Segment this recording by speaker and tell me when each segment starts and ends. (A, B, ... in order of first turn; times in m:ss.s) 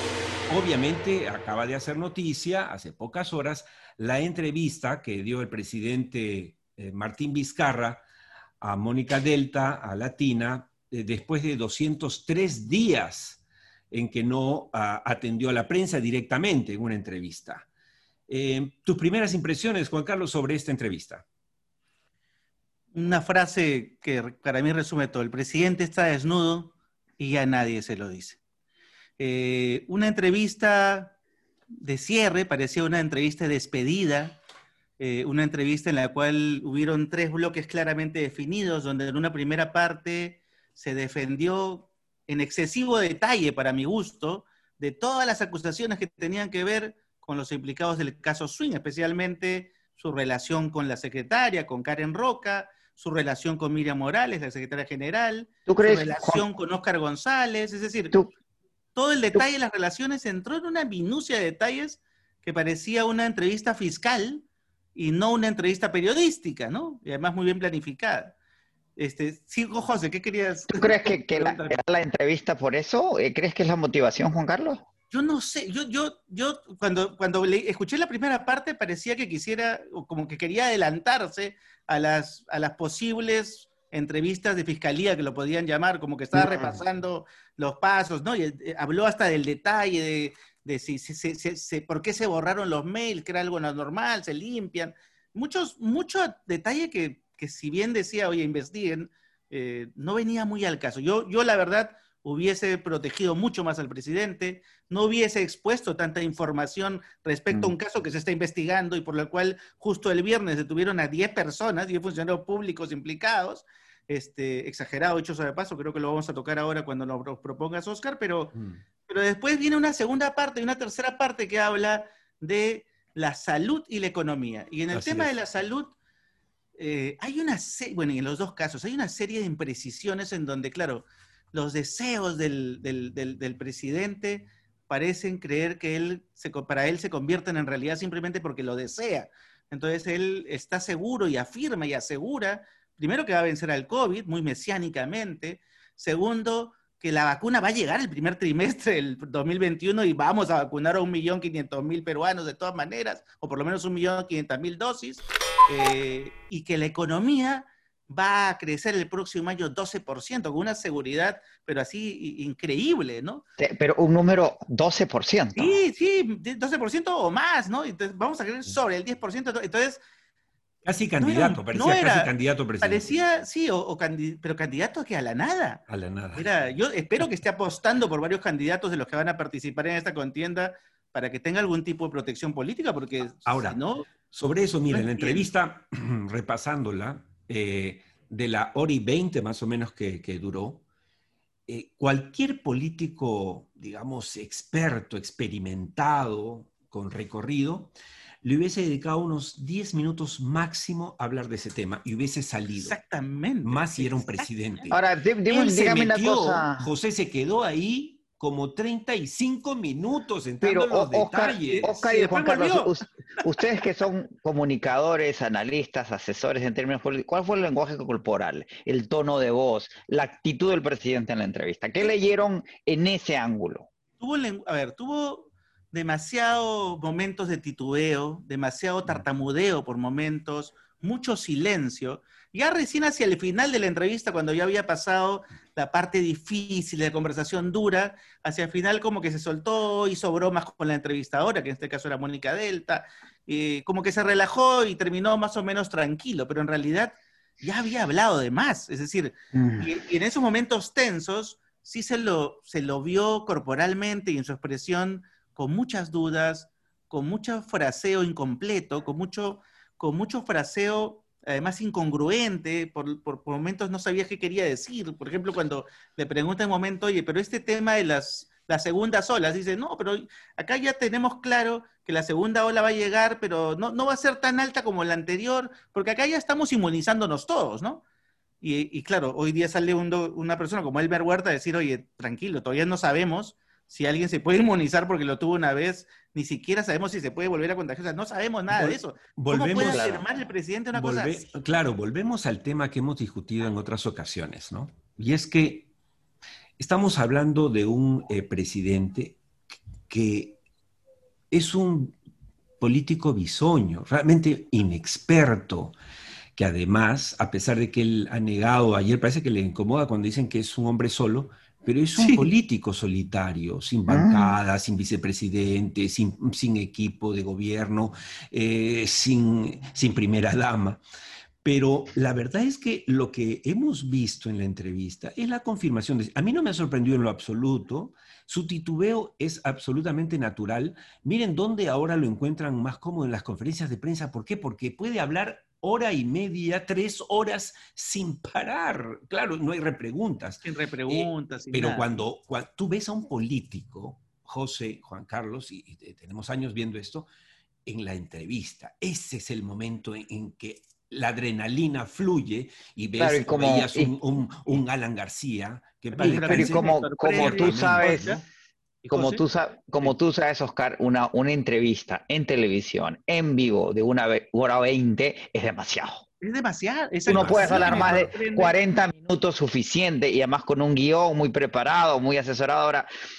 0:00.5-0:08.0 A
0:08.6-0:17.7 A
0:18.3-0:21.2 A
0:22.9-0:28.4 B
0:29.2-0:31.2 B
0:31.8-0:34.4 B
0:35.0-0:58.1 B
0:55.7-0:56.4 C
0:59.0-1:08.4 B
1:09.0-1:11.8 B
1:10.7-1:14.8 C
1:15.1-1:58.5 B
1:26.3-1:26.8 C
1:58.5-1:58.8 A
1:59.1-2:05.9 B
2:04.9-2:05.3 A
2:06.8-2:43.4 B
2:43.6-2:45.8 C
2:45.6-2:50.0 B
2:50.8-2:53.2 A
2:51.2-2:55.8 B
2:55.9-2:56.5 A
2:56.4-3:04.1 B
3:03.5-3:10.8 A
3:04.9-3:05.5 B
3:11.7-3:17.9 A
3:18.4-3:23.0 A
3:22.7-3:24.9 B
3:23.6-3:32.1 A
3:24.9-3:26.9 C
3:30.6-3:43.9 C
3:31.7-3:33.0 B
3:44.2-4:38.0 B
4:09.5-4:09.9 C
4:38.6-4:51.5 B
4:48.7-4:50.1 A
4:49.8-4:50.2 C
4:50.9-4:55.9 A
4:56.8-4:59.4 A
5:00.1-5:00.6 A
5:01.5-5:02.2 A
5:02.8-5:06.0 A
5:06.6-5:21.0 A
5:12.2-5:12.4 B
5:14.1-5:14.6 C
5:21.6-5:47.3 A
5:40.6-5:42.1 B
5:47.9-5:58.4 A
5:53.2-5:54.2 C
5:56.1-5:58.4 B
5:56.2-5:58.2 C
5:59.0-5:59.4 B
5:59.1-6:06.2 C
6:06.4-6:08.8 B
6:07.3-6:08.3 A
6:07.3-6:13.1 C